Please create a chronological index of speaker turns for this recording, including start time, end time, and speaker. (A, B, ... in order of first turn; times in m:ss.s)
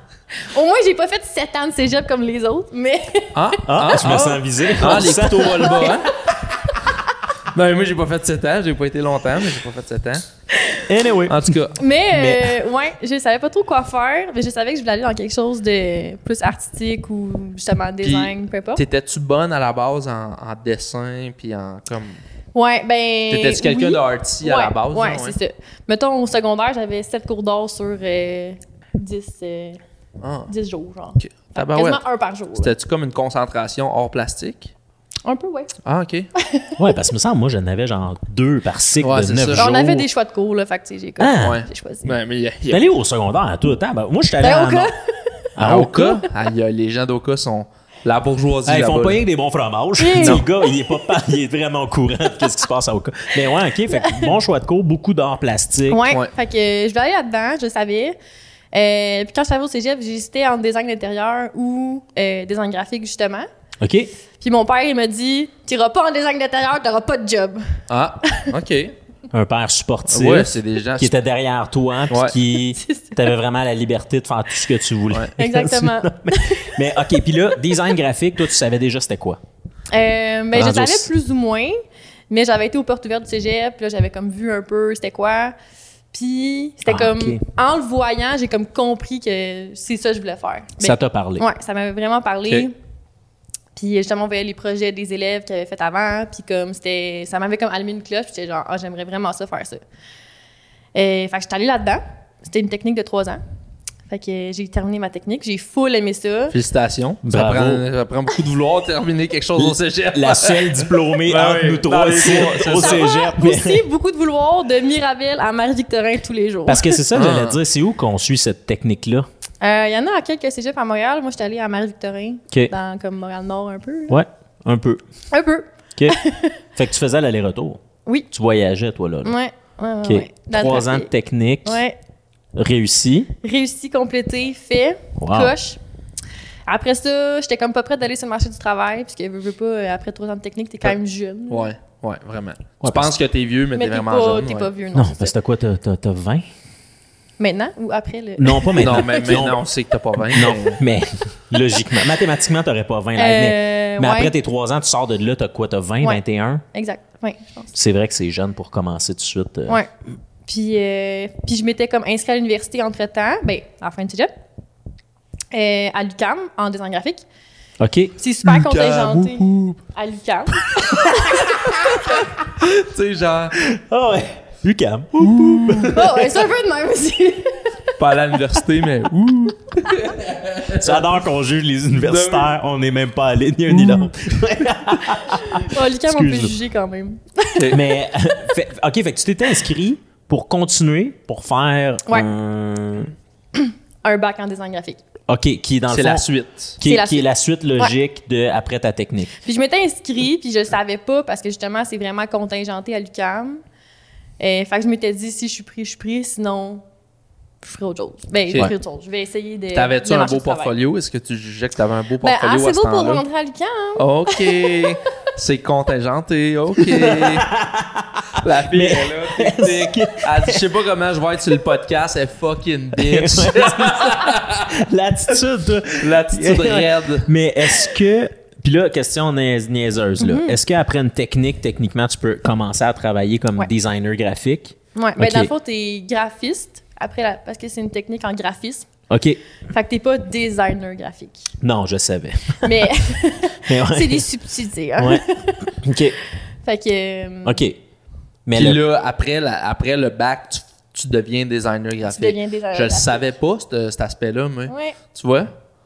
0:00.4-0:04.2 A
0:03.4-0:06.1 B
0:03.7-0:06.1 C
0:05.6-0:06.0 A
0:07.5-0:10.2 B
0:10.5-0:10.8 A
0:10.9-0:11.6 C
0:11.3-0:11.8 B
0:11.8-0:18.8 A
0:12.1-0:12.6 C
0:18.0-0:22.2 B
0:22.5-0:29.8 A
0:23.3-0:25.4 B
0:30.2-0:30.5 B
0:30.5-0:32.7 A
0:31.2-0:32.0 B
0:32.6-0:34.7 B
0:35.2-0:35.7 A
0:35.8-0:36.3 B
0:36.4-0:36.8 A
0:36.8-0:40.1 C
0:39.0-0:39.7 B
0:39.6-0:42.1 A
0:41.2-0:41.6 C
0:41.4-0:42.8 B
0:42.7-0:44.9 C
0:44.4-0:46.2 A
0:45.6-0:46.1 C
0:45.6-0:49.2 B
0:48.7-0:56.1 C
0:50.0-0:50.7 A
0:50.2-0:50.4 B
0:55.9-0:58.2 A
0:58.7-1:03.5 A
1:03.8-1:04.1 C
1:04.4-1:08.5 A
1:07.9-1:08.9 B
1:09.3-1:19.4 C
1:10.1-1:11.1 B
1:12.1-1:12.4 B
1:12.8-1:13.2 A
1:15.4-1:16.8 A
1:19.9-1:21.8 A
1:20.5-1:21.1 C
1:22.3-1:25.6 A
1:26.1-1:32.8 A
1:26.9-1:27.4 C
1:30.8-1:31.4 C
1:33.8-1:39.8 A
1:41.0-1:43.4 A
1:44.1-1:46.6 A
1:46.5-1:53.1 B
1:47.2-1:47.8 C
1:49.6-1:53.8 C
1:52.8-1:57.0 A
1:56.7-1:59.3 C
1:57.1-1:57.6 B
1:59.6-2:04.2 A
2:04.1-2:05.0 C
2:05.3-2:06.6 A
2:06.8-2:09.3 C
2:09.2-2:11.1 A
2:10.0-2:11.8 C
2:11.6-2:12.0 A
2:12.6-2:13.3 C
2:13.4-2:15.8 A
2:15.2-2:15.5 C
2:16.7-2:21.7 A
2:21.5-2:24.7 B
2:22.8-2:23.1 C
2:23.8-2:25.3 A
2:25.0-2:26.4 C
2:27.4-2:29.5 A
2:28.4-2:29.6 C
2:28.8-2:30.8 B
2:30.3-2:36.6 C
2:33.2-2:34.3 A
2:36.7-2:37.7 A
2:37.7-2:39.8 C
2:40.5-2:44.3 A
2:45.5-2:47.2 A
2:47.8-2:48.2 C
2:48.2-2:52.2 A
2:48.4-2:49.8 B
2:51.6-2:53.6 B
2:53.6-2:56.3 C
2:55.2-2:56.1 B
2:55.8-2:57.7 A
2:58.0-3:01.1 B
3:00.7-3:06.6 C
3:01.9-3:02.5 B
3:03.7-3:04.1 B
3:05.6-3:07.7 A
3:07.6-3:07.8 B
3:07.7-3:13.1 C
3:13.6-3:15.0 A
3:15.3-3:16.2 C
3:15.9-3:16.8 B
3:16.8-3:19.4 C
3:16.8-3:17.2 A
3:19.4-3:23.6 A
3:24.4-3:26.8 A
3:27.6-3:30.7 A
3:29.7-3:33.2 B
3:32.2-3:34.9 A
3:34.0-3:37.5 B
3:36.8-3:40.7 C
3:38.4-3:44.7 B
3:42.9-3:55.5 C
3:46.0-3:47.3 B
3:50.2-3:50.6 A
3:55.0-3:58.9 A
3:59.1-3:59.4 C
3:59.7-4:01.5 A
4:01.6-4:02.9 C
4:02.6-4:05.7 A
4:03.6-4:04.3 C
4:05.0-4:06.2 C
4:06.6-4:07.6 A
4:07.4-4:07.8 C
4:08.5-4:08.8 C
4:08.6-4:15.5 B
4:12.0-4:13.2 A
4:14.7-4:15.0 A